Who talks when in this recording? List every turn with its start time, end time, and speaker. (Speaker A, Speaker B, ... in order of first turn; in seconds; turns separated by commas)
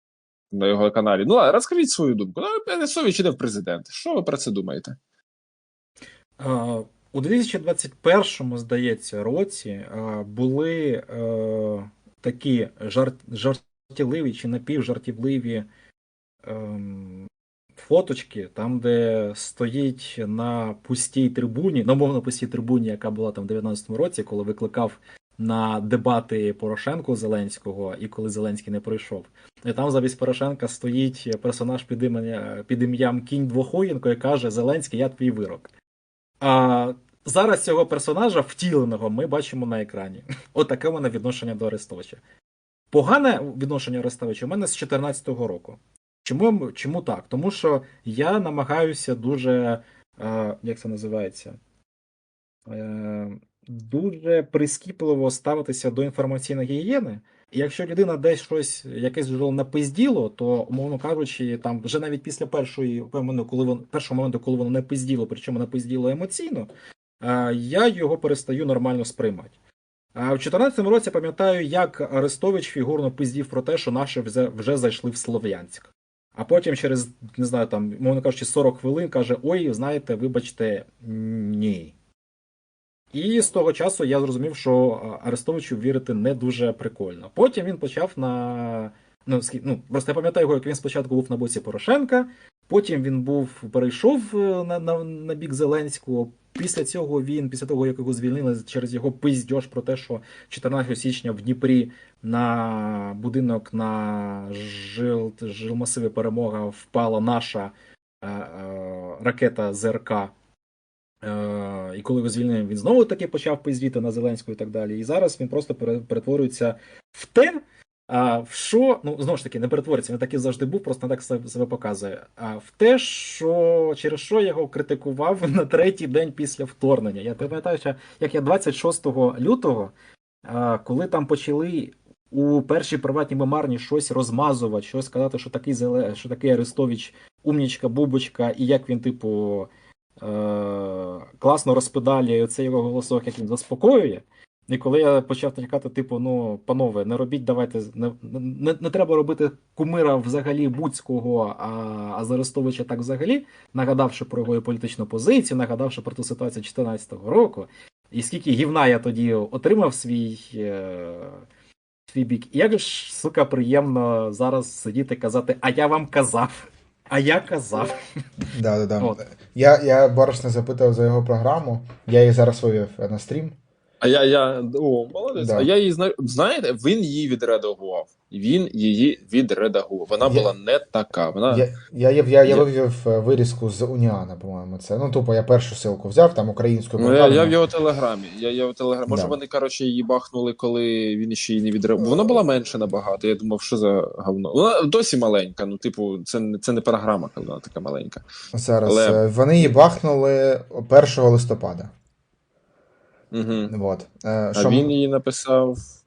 Speaker A: 0.5-5.0, Speaker B: 6.4-15.7, Speaker B: 16.4-35.7, Speaker B: 36.4-42.2, Speaker B: 42.9-51.6, Speaker B: 52.7-66.7, Speaker B: 67.2-69.5, Speaker B: 70.1-81.9, Speaker B: 83.1-110.3, Speaker B: 111.2-129.9, Speaker B: 130.4-161.4, Speaker B: 162.1-168.0, Speaker C: 168.5-173.6, Speaker A: 174.0-181.7, Speaker C: 175.3-175.7, Speaker C: 180.2-180.5, Speaker C: 181.5-187.6, Speaker A: 187.0-198.2, Speaker C: 189.1-189.4, Speaker C: 192.0-192.4, Speaker C: 198.5-201.9, Speaker A: 198.8-199.7, Speaker A: 203.3-203.7, Speaker C: 203.7-204.9, Speaker A: 204.5-205.8